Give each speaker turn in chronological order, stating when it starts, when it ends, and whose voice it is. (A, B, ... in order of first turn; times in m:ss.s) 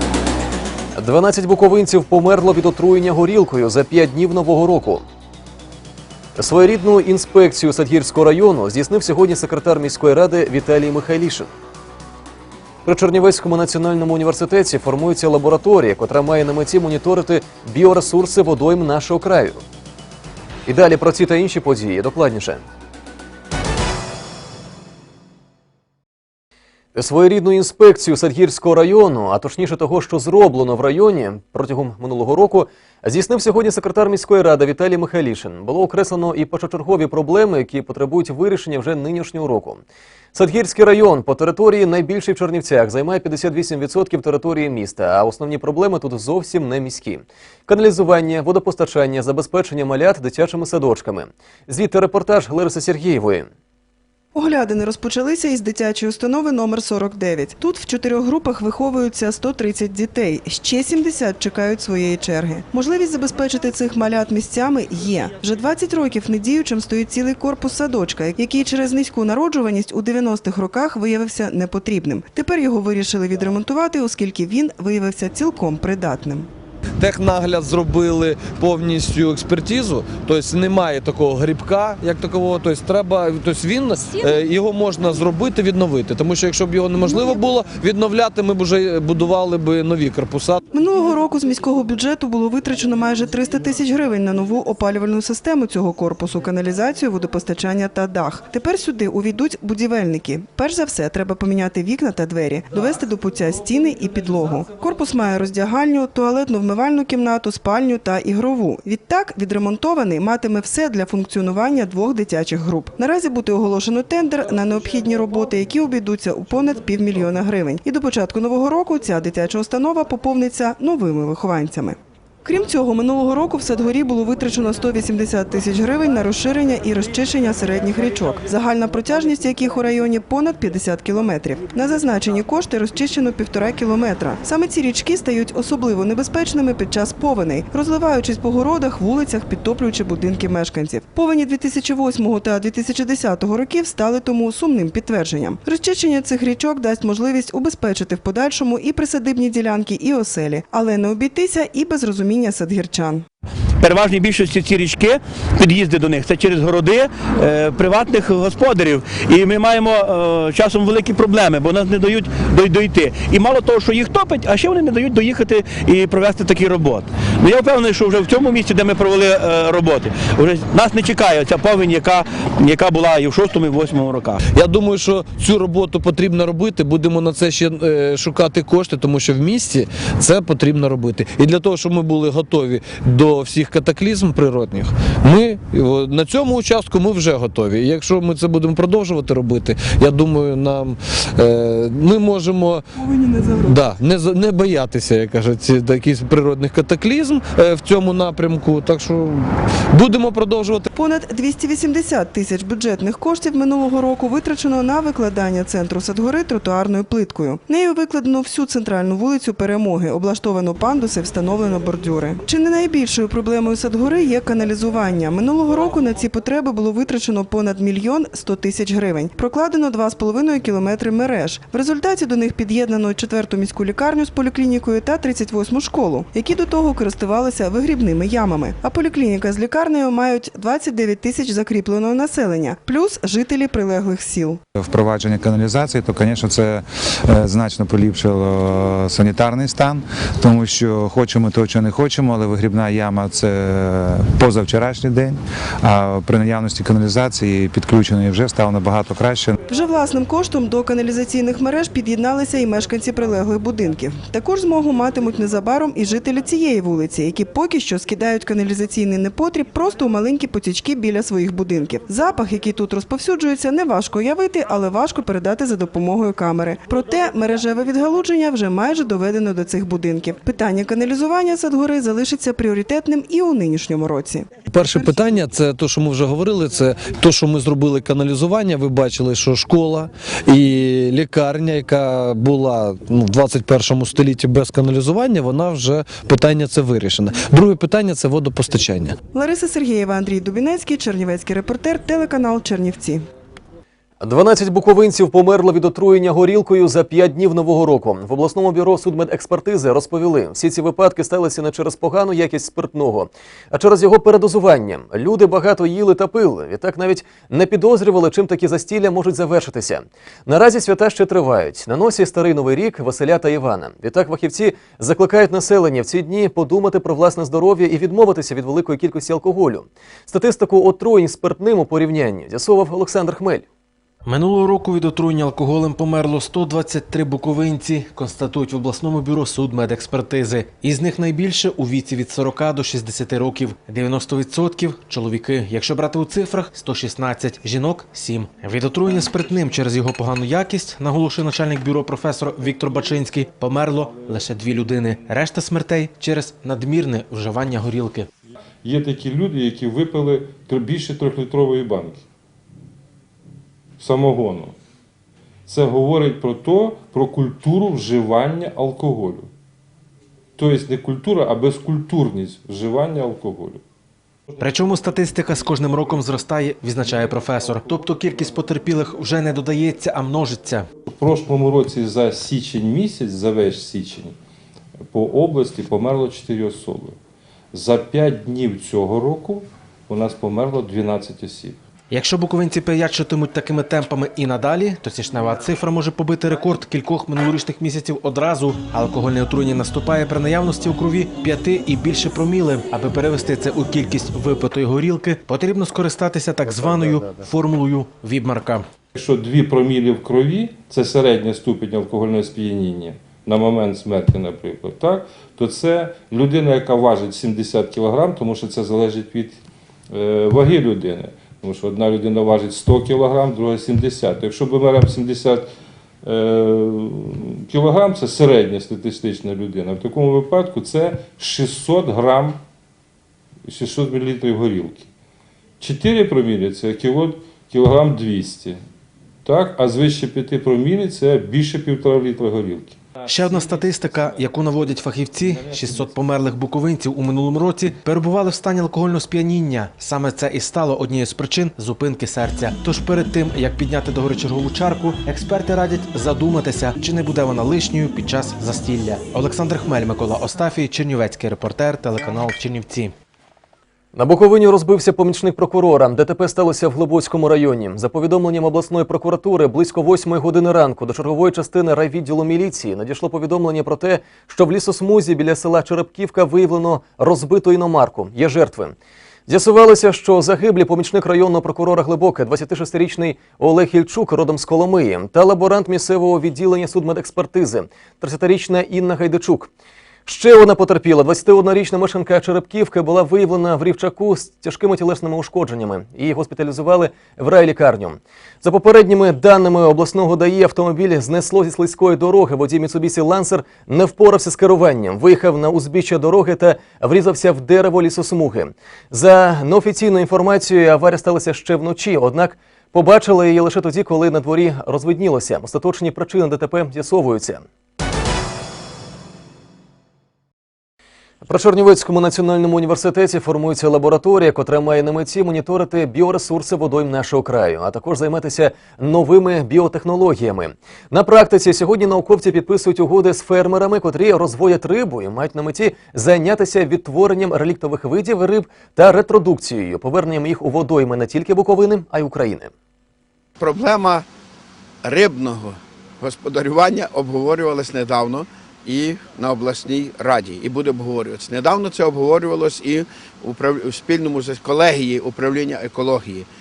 0:01.0-0:05.0 A
0:06.4-0:11.5 A
0:12.8-0:19.6 A
0:20.7-0:22.6 A
0:26.9-0:39.8 A
0:40.3-0:53.5 A
0:54.3-1:16.5 B
1:17.0-1:30.6 C
1:30.7-2:33.2 B
2:33.8-2:54.4 D
2:54.5-3:12.8 C
3:13.0-3:13.8 B
3:13.6-3:20.9 C
3:20.9-3:54.6 B
3:54.9-4:09.5 E
4:09.7-4:35.4 B
4:34.6-4:49.2 C
4:49.3-4:53.2 B
4:54.2-5:23.6 A
5:24.2-5:48.3 F
5:48.8-5:52.2 G
5:54.0-5:54.7 G
5:55.7-5:59.5 G
6:00.6-6:03.8 G
6:04.6-6:10.9 F
6:11.0-6:14.4 G
6:15.0-6:17.2 G
6:17.7-6:21.8 G
6:22.1-6:38.9 F
6:39.1-6:55.7 G
6:56.2-7:02.6 G
7:03.6-7:05.1 G
7:05.8-7:08.8 G
7:09.4-7:14.4 G
7:13.2-7:33.1 F
7:15.5-7:16.1 G
7:34.1-7:48.9 A
7:49.5-7:59.7 A
8:00.2-8:27.6 A
8:31.4-8:52.7 A
8:53.6-8:54.2 H
8:55.0-9:06.5 H